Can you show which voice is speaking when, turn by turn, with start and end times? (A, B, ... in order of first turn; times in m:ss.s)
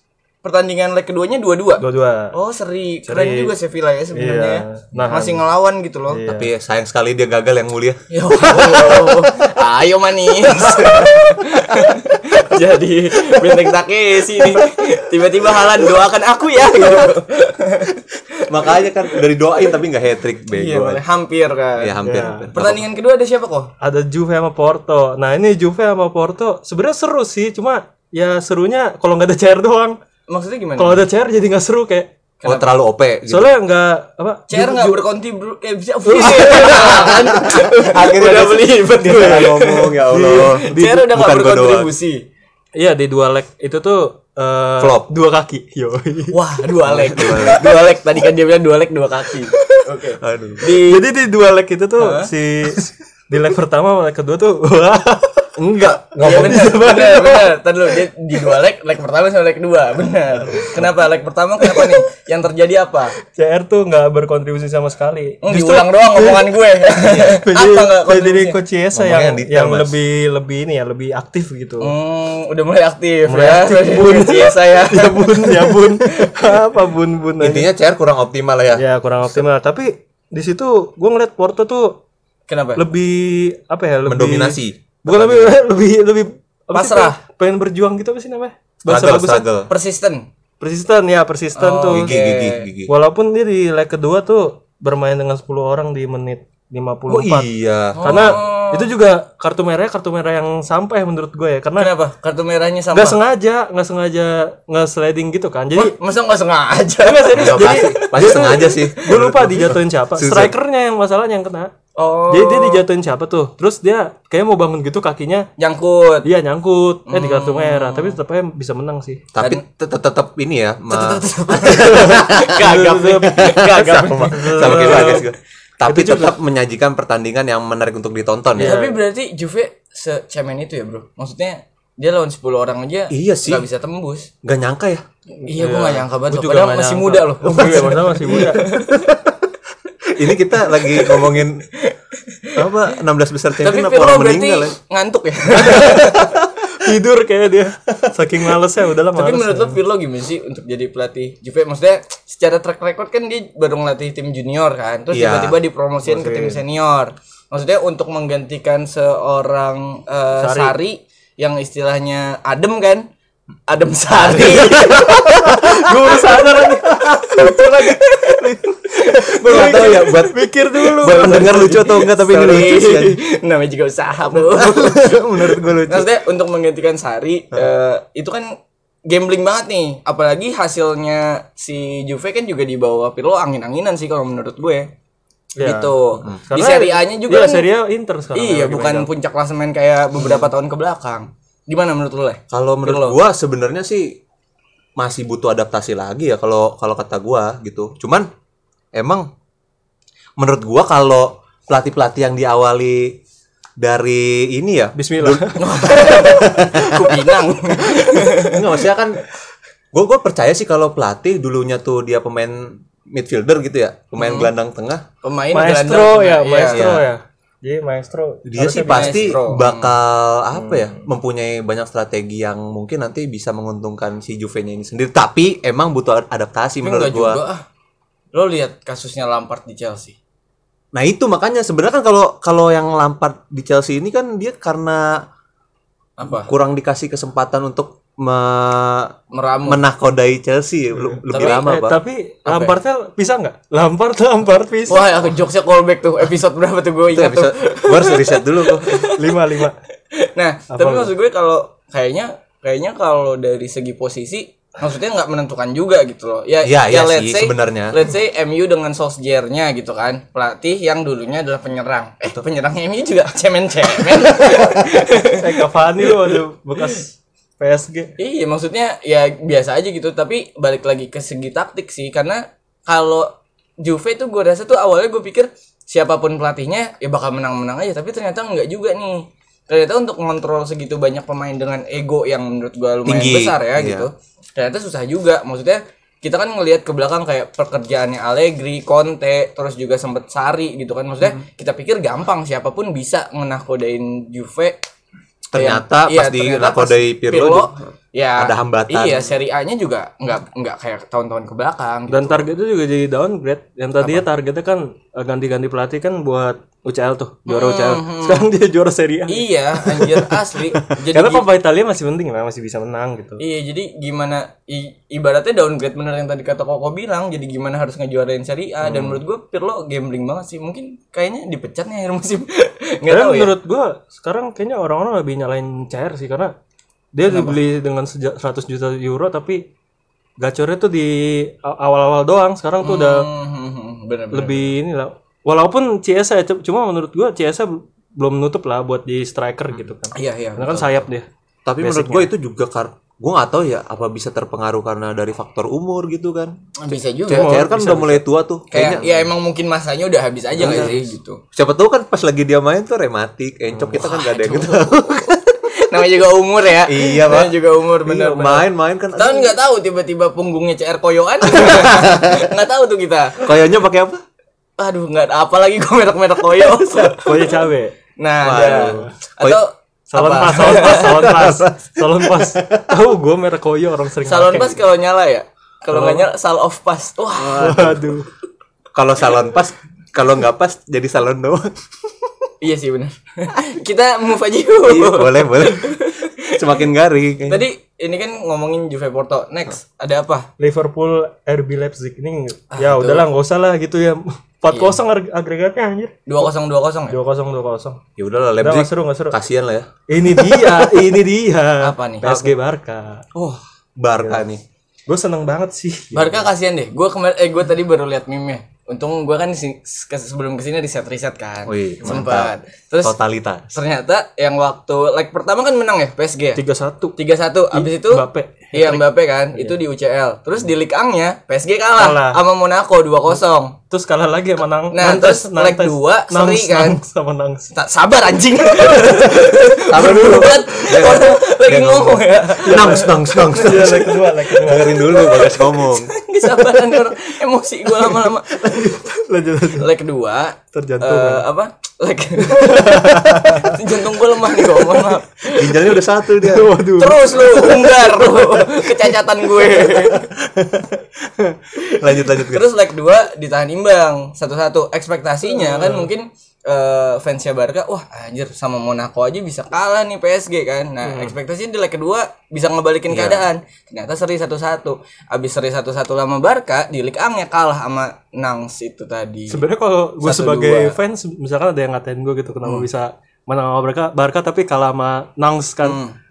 0:00.4-0:06.2 A
0:01.8-0:02.3 B
0:03.0-0:03.5 B
0:04.1-0:05.4 B
0:06.1-0:06.5 B
0:06.3-0:09.0 C
0:08.1-0:18.8 A
0:08.6-0:09.1 B
0:18.5-0:21.0 C
0:20.5-0:22.0 A
0:21.8-0:22.8 C
0:22.0-0:22.5 B
0:22.5-0:23.7 A
0:23.8-0:30.0 B
0:30.3-0:31.0 A
0:30.8-0:32.1 B
0:32.4-0:33.5 C
0:33.2-0:35.0 B
0:34.5-0:42.2 A
0:36.0-0:37.1 B
0:36.8-0:41.9 C
0:40.1-0:41.1 B
0:42.8-0:46.4 B
0:44.8-0:45.1 C
0:46.3-0:51.0 A
0:46.8-0:47.8 C
0:49.6-0:49.8 B
0:50.2-0:50.8 C
0:50.8-0:57.6 B
0:52.0-0:52.3 A
0:55.8-0:56.3 C
0:55.8-1:03.2 A
1:00.6-1:00.8 B
1:01.7-1:02.0 B
1:03.2-1:11.9 B
1:05.4-1:08.6 A
1:07.0-1:07.4 C
1:08.9-1:09.9 C
1:11.8-1:16.5 A
1:13.3-1:17.7 B
1:17.4-1:18.8 C
1:18.8-1:22.0 B
1:22.5-1:22.8 A
1:22.8-1:29.5 B
1:24.1-1:25.6 C
1:26.7-1:27.2 A
1:28.9-1:29.7 C
1:29.7-1:30.2 A
1:30.6-1:32.2 B
1:31.6-1:32.6 A
1:31.9-1:32.9 C
1:32.9-1:37.5 B
1:37.1-1:38.4 C
1:38.0-1:38.9 A
1:38.0-1:41.9 B
1:41.8-1:43.2 A
1:42.9-1:45.9 B
1:45.7-1:48.8 A
1:47.0-1:51.7 B
1:47.3-1:50.5 C
1:52.0-1:52.8 A
1:52.3-1:55.5 B
1:55.6-1:56.3 A
1:56.2-1:59.2 B
1:57.1-1:58.2 A
1:59.3-2:02.6 C
2:00.9-2:05.2 A
2:01.7-2:03.8 B
2:03.3-2:08.8 C
2:04.3-2:05.3 B
2:05.8-2:06.4 B
2:08.6-2:09.0 B
2:08.6-2:14.3 A
2:13.1-2:13.6 C
2:14.4-2:15.0 C
2:15.4-2:18.8 B
2:15.4-2:19.1 A
2:20.1-2:21.6 C
2:21.0-2:22.7 A
2:22.6-2:24.8 C
2:23.6-2:26.4 A
2:25.5-2:29.8 B
2:29.1-2:43.1 A
2:35.1-2:35.6 C
2:36.0-2:36.6 B
2:40.4-2:40.8 B
2:43.7-2:45.4 A
2:44.2-2:45.9 C
2:44.4-2:48.6 B
2:47.2-2:50.1 A
2:49.1-2:52.0 B
2:49.4-2:53.2 C
2:51.0-2:55.2 A
2:54.3-2:56.1 C
2:55.9-2:58.6 A
2:59.1-3:04.9 A
3:05.6-3:09.1 B
3:05.6-3:07.7 A
3:08.4-3:13.2 A
3:12.5-3:14.2 C
3:15.0-3:18.3 C
3:18.9-3:19.3 C
3:20.4-3:23.2 C
3:23.8-3:27.2 C
3:25.0-3:25.8 B
3:25.6-3:28.6 A
3:28.4-3:29.2 C
3:29.9-3:35.0 C
3:34.2-3:34.5 A
3:35.2-3:36.8 A
3:35.5-3:39.3 B
3:36.7-3:37.0 C
3:38.4-3:47.4 C
3:38.6-3:40.0 A
3:40.5-3:41.0 B
3:46.8-3:47.6 A
3:48.3-3:50.2 A
3:50.9-3:55.3 C
3:56.2-3:56.5 A
3:56.2-4:02.0 C
3:59.3-3:59.8 A
4:01.3-4:01.7 A
4:01.3-4:05.1 B
4:02.5-4:02.8 A
4:04.9-4:09.3 A
4:07.1-4:09.1 C
4:09.1-4:09.8 B
4:10.1-4:25.4 A
4:10.7-4:11.1 B
4:16.6-4:18.0 C
4:25.3-4:28.1 B
4:26.0-4:26.4 A
4:28.2-4:54.8 A
4:43.0-4:44.1 C
4:55.5-4:57.7 C
4:55.5-5:02.4 A
4:58.4-4:59.3 C
5:02.1-5:13.4 B
5:07.5-5:08.4 A
5:09.3-5:11.4 A
5:13.4-5:23.5 A
5:23.1-5:26.5 B
5:27.1-5:29.6 B
5:27.3-5:27.6 A
5:30.4-5:33.3 B
5:32.8-5:34.7 A
5:34.3-5:41.2 B
5:40.1-5:41.0 A
5:41.6-5:46.5 C
5:41.8-5:42.3 B
5:46.8-5:47.6 A
5:47.3-5:49.3 C
5:47.3-5:48.2 B
5:48.7-5:51.4 A
5:50.6-5:51.0 C
5:51.5-5:55.6 C
5:53.9-6:03.5 A
5:56.8-5:59.6 C
6:01.5-6:02.5 C
6:03.4-6:04.2 C
6:04.8-6:07.5 A
6:07.2-6:08.0 B
6:08.2-6:11.3 A
6:08.4-6:09.6 C
6:08.5-6:09.1 B
6:10.1-6:14.8 B
6:10.8-6:12.9 C
6:14.2-6:18.0 A
6:15.9-6:16.3 B
6:17.4-6:18.0 C
6:17.6-6:18.3 B
6:18.9-6:21.7 C
6:22.6-6:26.6 A
6:24.8-6:26.0 C
6:26.5-6:27.6 C
6:27.5-6:30.5 A
6:30.6-6:36.5 B
6:32.7-6:33.2 A
6:34.7-6:35.0 A
6:36.2-6:37.2 A
6:37.1-6:38.0 B
6:38.2-6:39.9 C
6:38.6-6:39.4 B
6:40.1-6:43.2 B
6:41.8-6:42.3 A
6:42.2-6:42.5 C
6:43.3-6:44.6 C
6:45.1-6:46.5 B
6:46.1-6:53.2 A
6:51.7-6:53.7 C
6:53.7-6:56.6 A
6:56.6-6:57.2 B
6:57.1-7:03.8 A
6:57.7-6:59.8 B
7:02.0-7:02.4 B
7:03.9-7:07.7 B
7:04.9-7:07.0 A
7:07.7-7:14.0 A
7:08.8-7:09.4 B
7:09.9-7:16.1 C
7:10.2-7:10.5 B
7:12.6-7:15.2 B
7:14.8-7:18.6 A
7:18.6-7:19.9 B
7:19.8-7:26.0 A
7:20.7-7:21.4 B
7:22.5-7:23.8 B
7:25.5-7:26.8 C
7:26.4-7:29.0 B
7:27.0-7:30.3 A
7:30.5-7:30.9 C
7:31.9-7:32.7 C
7:32.2-7:49.6 A
7:35.5-7:36.1 B
7:41.0-7:41.3 B
7:43.1-7:43.4 C
7:49.5-7:56.0 B
7:50.2-7:51.0 A
7:55.8-7:56.2 A